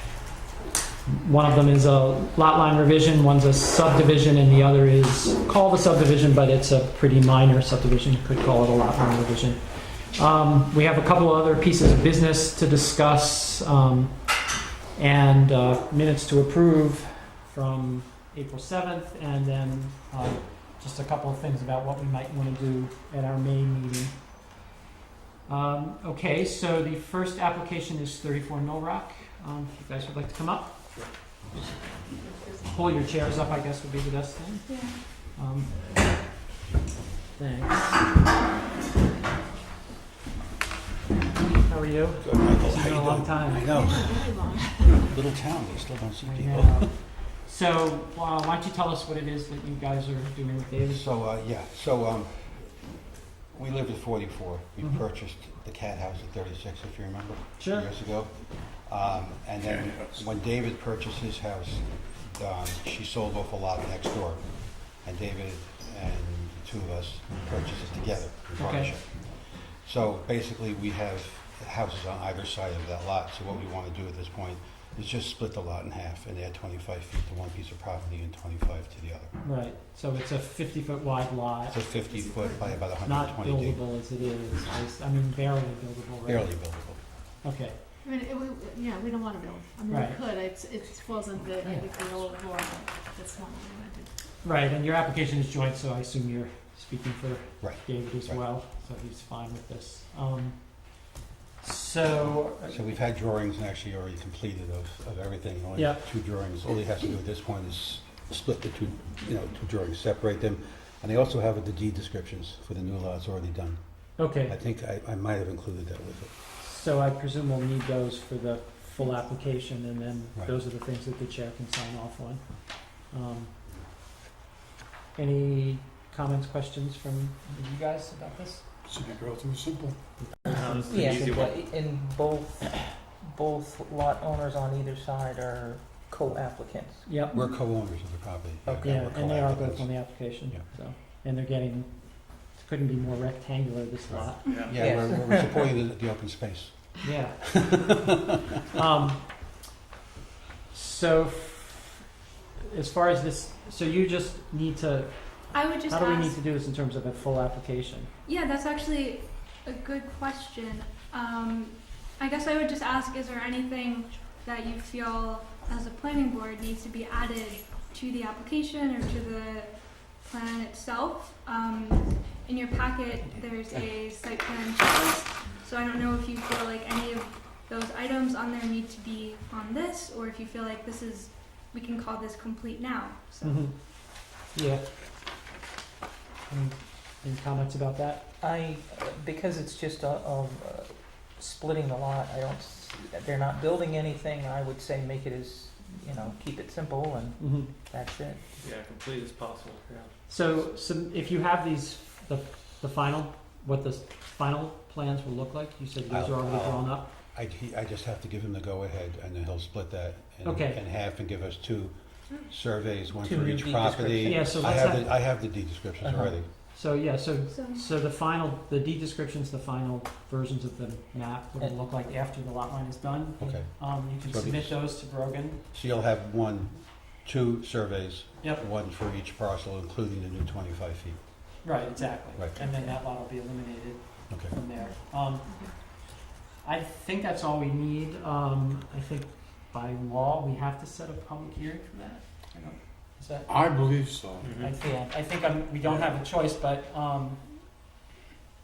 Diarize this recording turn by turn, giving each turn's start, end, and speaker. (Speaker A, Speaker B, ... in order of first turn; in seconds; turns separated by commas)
Speaker A: 1.1-14.2, Speaker A: 15.0-24.2, Speaker A: 25.5-30.9, Speaker B: 32.2-32.6, Speaker A: 32.6-35.8, Speaker C: 34.7-35.0, Speaker A: 37.4-38.0, Speaker A: 41.6-43.7, Speaker D: 42.2-47.0, Speaker B: 43.7-45.1, Speaker A: 46.2-51.0, Speaker D: 50.9-79.3, Speaker A: 57.6-57.9, Speaker A: 68.6-69.0, Speaker A: 79.4-81.8, Speaker D: 81.7-83.8, Speaker B: 82.1-82.8, Speaker A: 83.0-86.5, Speaker D: 86.2-87.0, Speaker A: 87.4-87.8, Speaker B: 88.0-94.1, Speaker A: 89.9-90.2, Speaker A: 91.6-91.9, Speaker A: 94.4-100.6, Speaker D: 97.6-98.4, Speaker A: 101.6-102.8, Speaker D: 102.7-116.3, Speaker A: 105.8-106.0, Speaker A: 114.2-114.6, Speaker A: 116.6-123.5, Speaker A: 125.2-128.6, Speaker E: 128.9-130.0, Speaker A: 130.2-131.2, Speaker F: 130.5-131.7, Speaker G: 130.9-137.1, Speaker A: 137.1-137.4, Speaker D: 137.3-140.7, Speaker A: 138.8-144.5, Speaker D: 144.1-147.8, Speaker F: 144.5-144.8, Speaker G: 144.7-145.6, Speaker A: 147.0-148.0, Speaker A: 148.7-149.5, Speaker A: 150.7-152.0, Speaker A: 152.6-158.1, Speaker C: 155.5-156.4, Speaker C: 158.3-183.7, Speaker A: 183.4-183.7, Speaker A: 184.5-184.8, Speaker A: 186.5-188.2, Speaker G: 188.4-197.4, Speaker A: 197.4-197.7, Speaker G: 197.9-198.6, Speaker F: 198.6-200.1, Speaker A: 200.3-207.1, Speaker D: 206.1-216.5, Speaker A: 210.4-210.8, Speaker G: 213.2-214.9, Speaker A: 214.3-215.1, Speaker G: 216.0-216.3, Speaker A: 216.7-225.6, Speaker C: 217.5-217.8, Speaker D: 223.4-224.8, Speaker D: 225.7-231.2, Speaker A: 231.6-235.6, Speaker B: 232.6-232.9, Speaker D: 234.3-234.6, Speaker B: 235.5-235.7, Speaker A: 236.6-243.6, Speaker E: 243.5-244.5, Speaker F: 244.4-244.7, Speaker A: 244.6-247.4, Speaker G: 244.6-245.1